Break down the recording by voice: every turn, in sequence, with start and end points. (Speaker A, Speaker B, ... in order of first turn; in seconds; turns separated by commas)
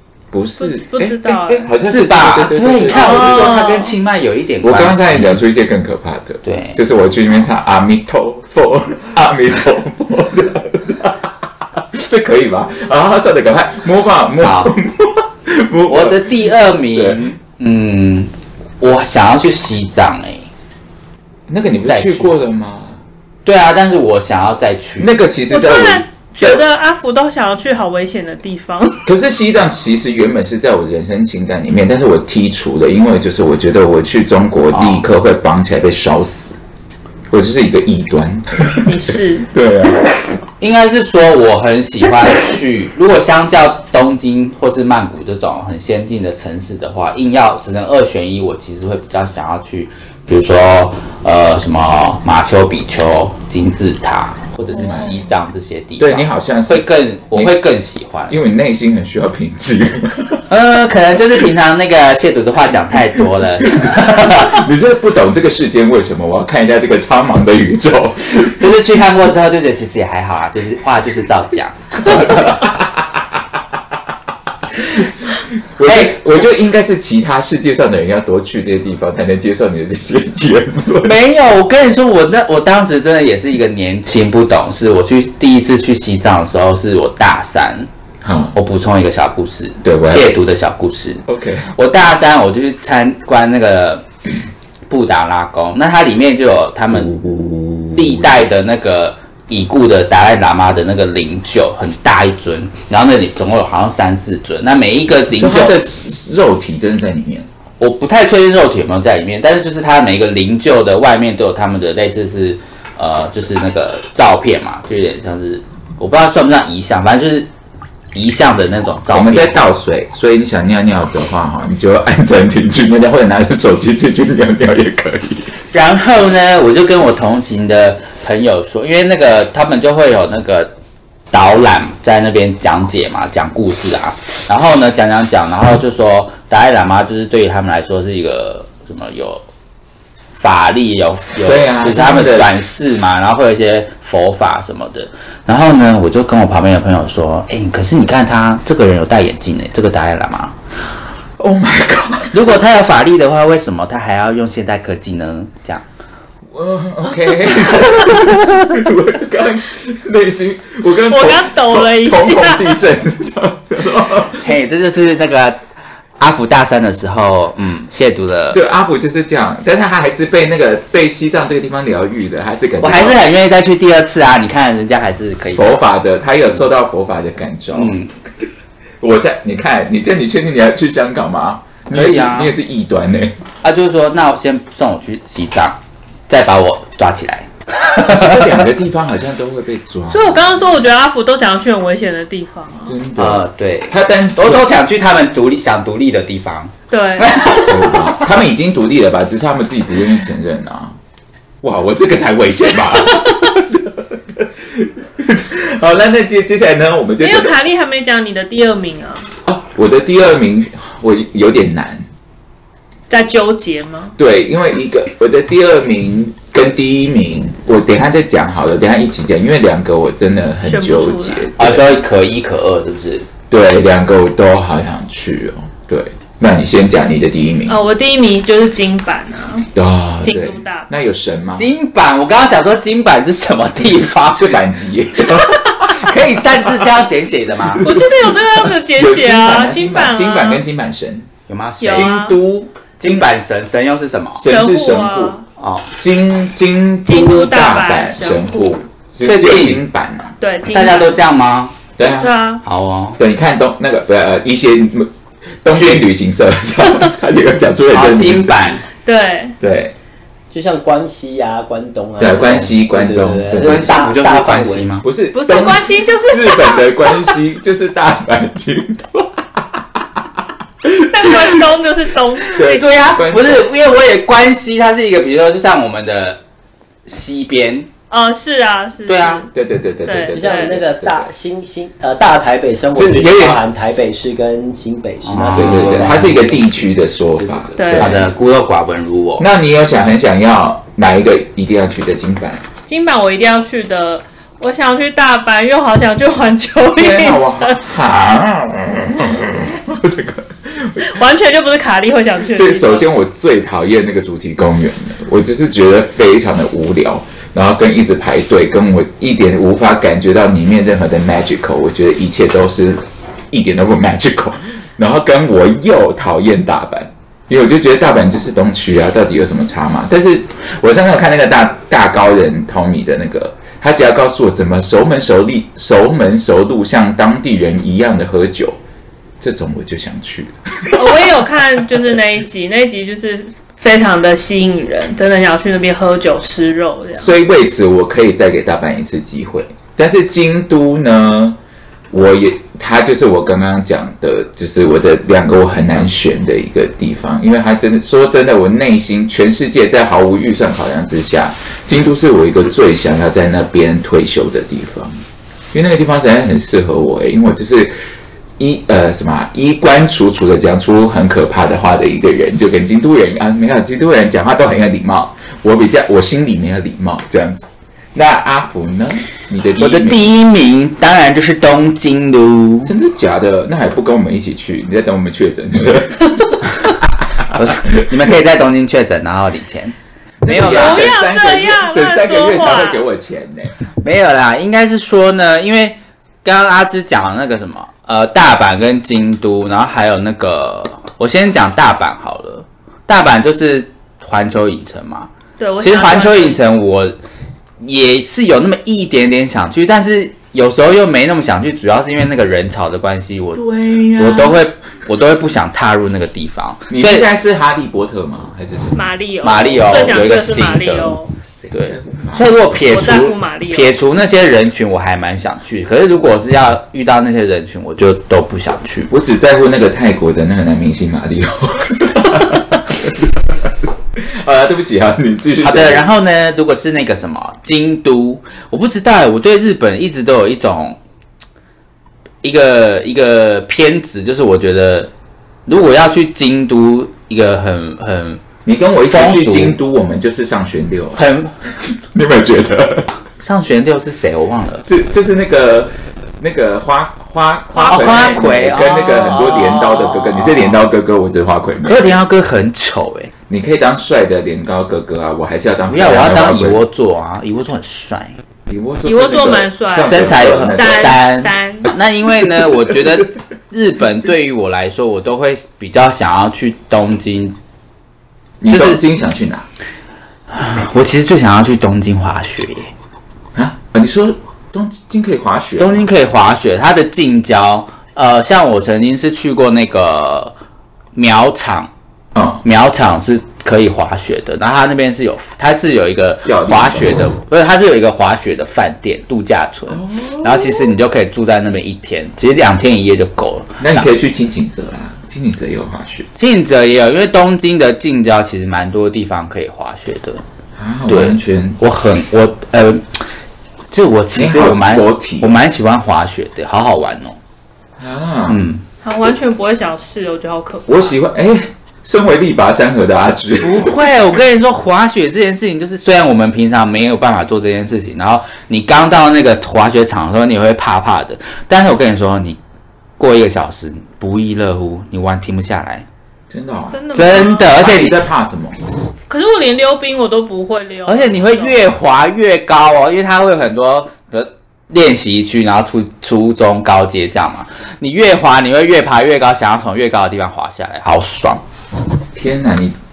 Speaker A: 0.3-3.6, Speaker B: 0.6-1.7, Speaker C: 1.8-5.4, Speaker B: 2.9-3.9, Speaker A: 4.6-17.3, Speaker C: 6.4-6.8, Speaker C: 14.4-14.7, Speaker C: 15.9-20.5, Speaker A: 21.5-23.0, Speaker C: 21.8-22.3, Speaker C: 23.4-25.1, Speaker A: 25.0-26.6, Speaker B: 25.5-29.0, Speaker A: 29.0-36.6, Speaker C: 34.7-35.0, Speaker A: 37.3-40.1, Speaker B: 38.8-39.5, Speaker C: 40.6-58.4, Speaker A: 54.7-55.2, Speaker A: 56.0-57.6, Speaker A: 58.3-60.5, Speaker C: 60.5-64.5, Speaker A: 63.6-68.6, Speaker C: 68.4-72.6, Speaker A: 72.0-73.2, Speaker A: 74.8-81.1, Speaker C: 75.8-76.2, Speaker C: 81.0-87.9, Speaker A: 88.2-88.5, Speaker C: 88.5-94.0, Speaker A: 89.8-90.4, Speaker A: 91.2-91.7, Speaker C: 94.9-97.2, Speaker A: 96.9-98.5, Speaker C: 97.9-105.8, Speaker A: 105.3-107.5, Speaker C: 107.8-117.5, Speaker C: 118.1-119.6, Speaker A: 119.1-125.5, Speaker C: 125.7-130.7, Speaker C: 131.3-139.4, Speaker C: 140.3-150.5, Speaker A: 141.4-142.5, Speaker A: 151.4-152.4, Speaker C: 152.3-155.8, Speaker A: 156.5-164.5, Speaker B: 161.1-162.8, Speaker C: 164.4-165.6, Speaker C: 166.2-168.6, Speaker A: 168.5-173.2, Speaker C: 172.8-175.8, Speaker A: 175.5-177.9, Speaker C: 177.7-178.1, Speaker A: 179.0-183.4, Speaker C: 181.9-182.5, Speaker C: 183.6-185.8, Speaker C: 186.3-188.6, Speaker A: 188.1-190.6, Speaker B: 190.1-192.9, Speaker A: 192.8-194.7, Speaker C: 193.2-198.3, Speaker B: 196.9-197.4, Speaker A: 197.7-200.9, Speaker A: 201.6-207.6, Speaker B: 207.2-209.3, Speaker A: 209.4-212.1, Speaker B: 213.1-214.1, Speaker A: 214.2-221.8, Speaker B: 220.6-221.5, Speaker C: 221.6-223.3, Speaker A: 223.5-227.8, Speaker B: 227.7-229.7, Speaker A: 229.7-231.7, Speaker B: 230.2-230.9, Speaker C: 231.5-234.5, Speaker A: 234.3-236.9, Speaker C: 235.8-237.9, Speaker A: 237.6-241.3, Speaker B: 237.8-240.6, Speaker C: 241.5-242.2, Speaker B: 241.8-242.4, Speaker A: 241.9-243.2, Speaker C: 243.0-244.4, Speaker A: 244.3-245.3, Speaker B: 244.4-245.4, Speaker C: 245.6-245.9, Speaker A: 245.9-250.3, Speaker B: 247.1-248.8, Speaker C: 249.2-249.8, Speaker B: 250.4-251.2, Speaker C: 250.7-251.7, Speaker A: 252.0-252.3, Speaker B: 252.2-252.6, Speaker C: 252.6-253.2, Speaker A: 253.2-255.1, Speaker A: 255.6-258.8, Speaker C: 255.7-256.1, Speaker C: 257.9-258.8, Speaker B: 259.0-259.6, Speaker A: 259.6-259.9, Speaker D: 260.5-264.9, Speaker A: 262.2-264.0, Speaker C: 263.6-265.1, Speaker A: 265.0-270.2, Speaker B: 265.3-267.4, Speaker A: 270.8-271.7, Speaker B: 271.0-272.9, Speaker A: 272.5-273.7, Speaker C: 272.7-276.4, Speaker C: 277.1-277.9, Speaker B: 278.1-279.5, Speaker C: 279.1-279.4, Speaker A: 279.5-281.3, Speaker B: 280.0-280.8, Speaker D: 280.3-286.6, Speaker A: 282.9-283.6, Speaker C: 285.2-286.5, Speaker A: 285.5-288.3, Speaker B: 287.8-288.2, Speaker C: 287.9-289.4, Speaker A: 289.4-292.6, Speaker B: 292.9-297.8, Speaker A: 296.9-301.2, Speaker B: 301.0-303.0, Speaker A: 302.5-328.8, Speaker A: 329.4-332.2, Speaker B: 330.9-337.4, Speaker A: 337.2-341.6, Speaker A: 342.1-355.2, Speaker A: 355.7-357.9, Speaker A: 358.6-370.3, Speaker C: 369.8-372.9, Speaker A: 372.8-378.1, Speaker C: 377.5-381.1, Speaker A: 380.4-383.8, Speaker B: 380.6-383.0, Speaker C: 384.0-397.1, Speaker B: 395.6-396.6, Speaker C: 397.8-403.6, Speaker A: 403.5-404.6, Speaker C: 404.1-407.3, Speaker A: 406.9-409.0, Speaker B: 408.9-411.3, Speaker C: 409.4-411.2, Speaker A: 411.4-412.5, Speaker C: 411.7-419.1, Speaker B: 412.9-413.9, Speaker A: 419.1-426.1, Speaker C: 425.6-431.0, Speaker C: 432.4-435.1, Speaker C: 435.7-438.4, Speaker A: 438.6-441.2, Speaker C: 439.1-439.8, Speaker C: 441.1-441.6, Speaker A: 441.9-443.1, Speaker C: 443.4-444.9, Speaker A: 444.8-452.2, Speaker B: 447.7-448.4, Speaker C: 447.8-450.8, Speaker C: 451.8-453.3, Speaker A: 453.5-456.8, Speaker C: 455.9-458.4, Speaker A: 458.7-461.2, Speaker B: 459.0-461.9, Speaker C: 460.0-467.6, Speaker A: 462.4-463.1, Speaker A: 468.6-469.6, Speaker C: 468.7-469.0, Speaker C: 470.5-472.9, Speaker A: 473.5-476.1, Speaker C: 475.8-480.5, Speaker C: 481.1-481.9, Speaker A: 482.3-482.6, Speaker C: 482.6-494.0, Speaker A: 486.4-487.2, Speaker A: 489.9-490.9, Speaker A: 493.8-496.3, Speaker C: 496.4-500.4, Speaker A: 500.8-501.8, Speaker C: 501.1-503.0, Speaker C: 503.9-507.4, Speaker A: 504.3-505.6, Speaker A: 508.0-508.6, Speaker C: 508.5-508.8, Speaker B: 509.0-511.1, Speaker A: 510.9-514.1, Speaker C: 513.6-522.6, Speaker C: 523.2-526.0, Speaker A: 526.5-528.8, Speaker B: 526.9-527.8, Speaker C: 527.1-528.2, Speaker B: 529.3-531.8, Speaker C: 531.1-541.6, Speaker A: 542.3-542.9